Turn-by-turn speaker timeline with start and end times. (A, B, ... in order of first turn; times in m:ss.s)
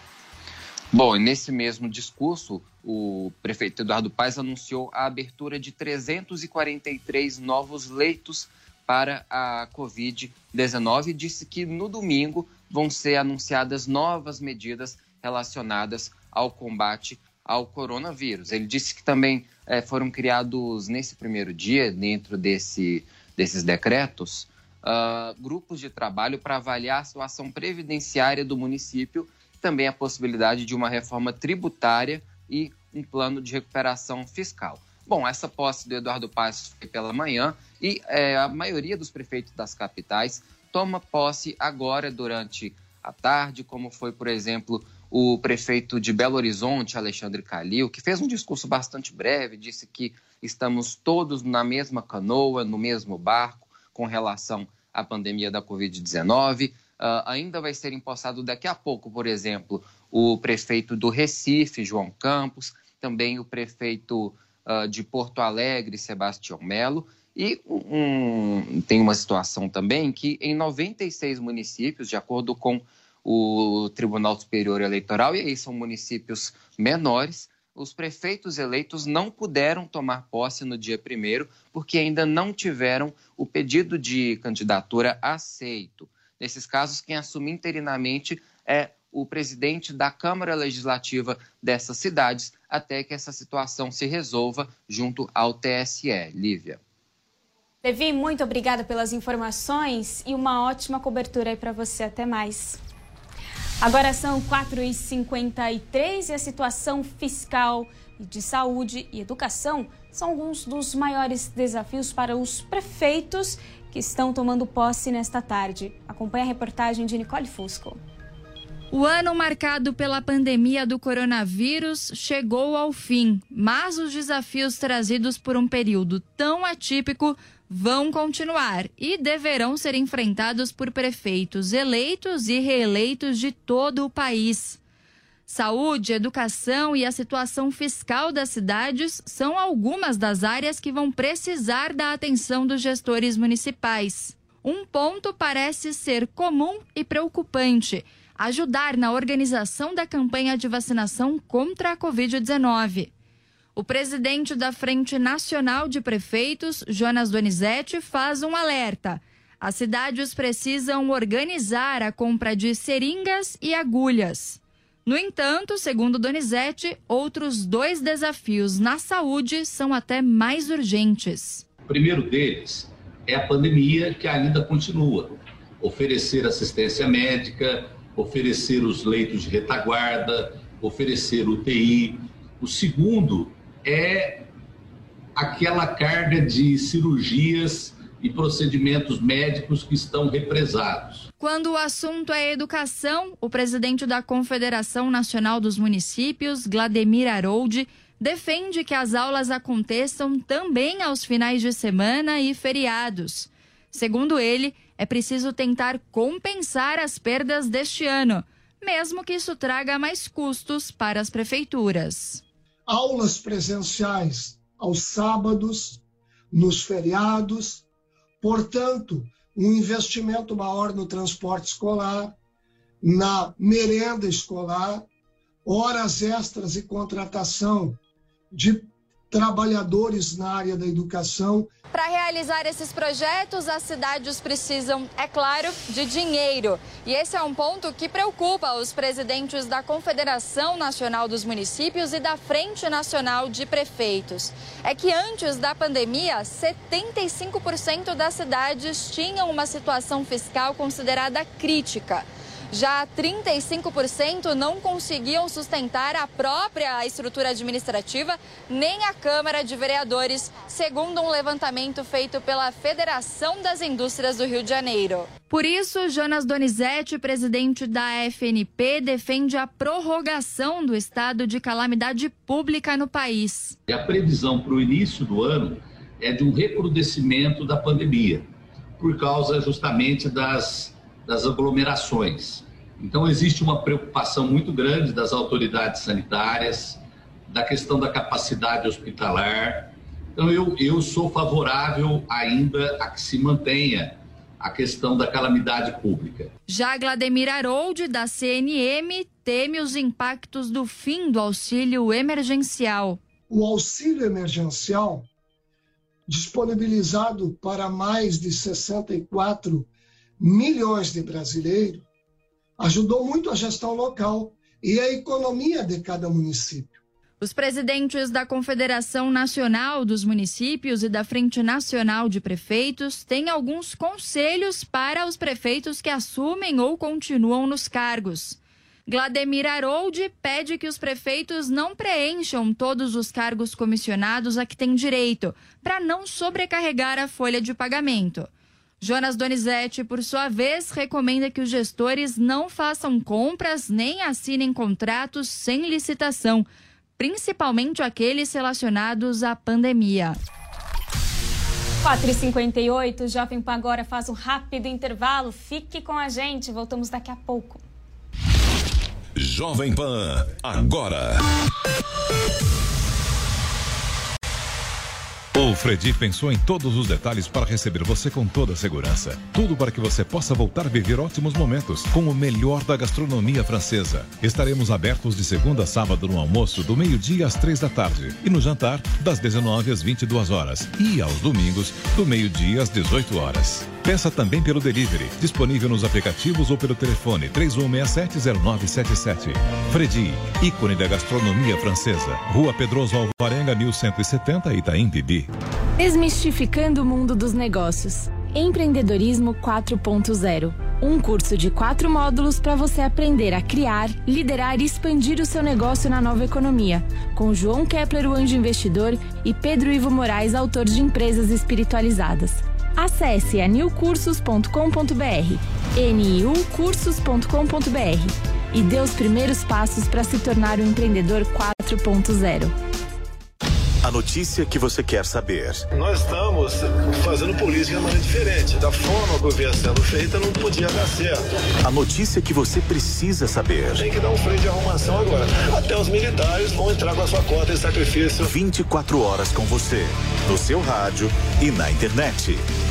0:00.9-1:36.8 A
1:37.8-1:42.8 B
1:43.8-1:58.0 B
1:58.9-2:14.8 C
2:15.5-2:33.1 C
2:33.8-2:51.6 C
2:51.9-3:04.5 D
3:05.4-3:11.3 D
3:11.4-3:32.4 C
3:32.9-3:36.0 E
3:36.5-3:37.8 E
3:38.4-3:42.3 E
3:43.0-3:45.0 E
3:45.6-3:48.0 E
3:48.5-3:51.7 E
3:51.9-4:33.8 C
4:33.9-4:38.4 D
4:39.0-4:56.5 D
4:56.7-5:03.2 C
5:03.5-5:05.3 E
5:06.3-5:09.9 E
5:10.4-5:12.0 E
5:12.8-5:17.0 E
5:17.4-5:38.5 C
5:39.0-5:46.6 C
5:47.2-5:50.4 C
5:52.0-5:57.8 B
5:59.4-6:01.4 F
6:05.5-6:35.5 F
6:36.0-7:02.7 G
7:04.0-7:05.8 H
7:05.9-7:11.5 I
7:11.8-7:14.0 H
7:14.0-7:18.5 I
7:18.4-7:22.6 H